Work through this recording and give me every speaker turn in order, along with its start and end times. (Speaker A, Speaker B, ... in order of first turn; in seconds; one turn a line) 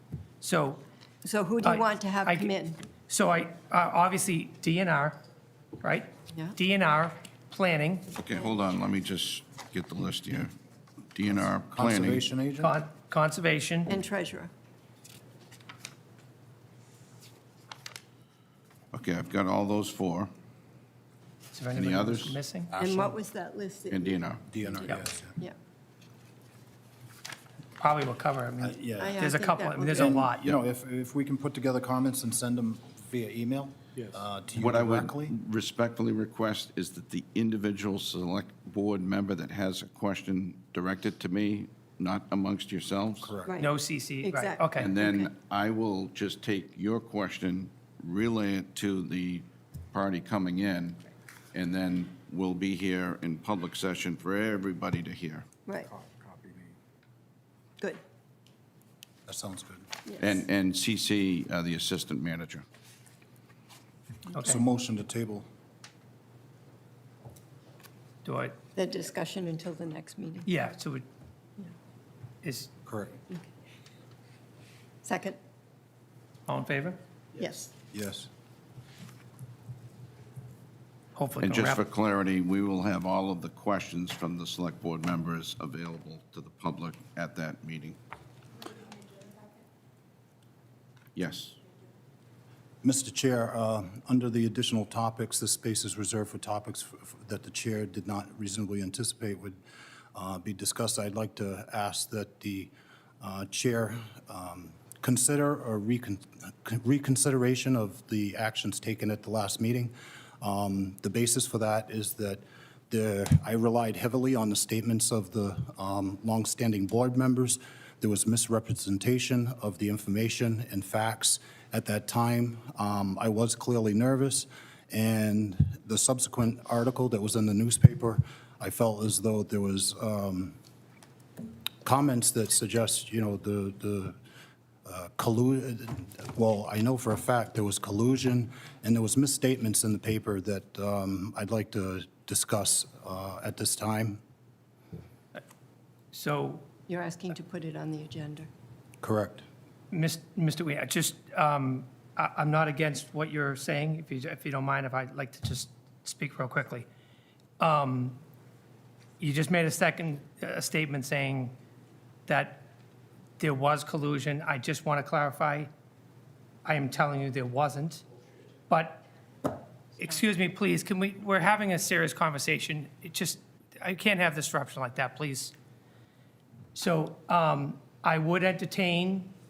Speaker A: 0.4-0.8
Speaker B: 1.2-2.8
Speaker A: 1.6-2.5
Speaker A: 3.1-5.2
Speaker A: 5.8-8.1
Speaker C: 8.1-10.5
Speaker C: 11.1-12.2
Speaker D: 11.5-12.8
Speaker A: 12.6-14.0
Speaker B: 13.9-14.5
Speaker C: 18.9-20.3
Speaker A: 21.5-22.7
Speaker C: 21.7-22.9
Speaker B: 22.8-25.6
Speaker C: 23.9-24.4
Speaker D: 24.5-25.4
Speaker A: 27.8-30.5
Speaker D: 28.6-29.2
Speaker B: 29.0-30.1
Speaker D: 29.9-35.3
Speaker C: 34.6-43.3
Speaker D: 43.2-43.6
Speaker B: 43.4-43.7
Speaker A: 43.6-44.9
Speaker B: 44.2-45.3
Speaker C: 44.8-55.4
Speaker D: 56.0-56.6
Speaker D: 59.2-59.9
Speaker C: 60.2-62.6
Speaker A: 64.3-64.6
Speaker D: 64.4-65.5
Speaker A: 68.2-68.6
Speaker B: 68.8-70.5
Speaker A: 70.5-71.0
Speaker A: 72.4-72.7
Speaker D: 72.8-73.1
Speaker B: 75.0-75.4
Speaker A: 76.5-77.0
Speaker B: 77.4-77.7
Speaker D: 77.9-78.3
Speaker A: 81.2-81.8
Speaker C: 81.4-88.0
Speaker C: 91.1-91.6
Speaker D: 92.8-99.6
Speaker D: 100.1-130.6
Speaker D: 131.8-134.2
Speaker D: 134.8-144.2
Speaker A: 146.1-146.7
Speaker B: 146.9-148.5
Speaker D: 149.0-149.4
Speaker A: 149.9-156.9
Speaker A: 157.6-158.2
Speaker A: 159.2-161.5
Speaker A: 162.3-162.6
Speaker A: 163.4-165.7
Speaker A: 166.6-168.0
Speaker A: 168.7-169.0
Speaker A: 170.0-175.5
Speaker A: 176.7-179.3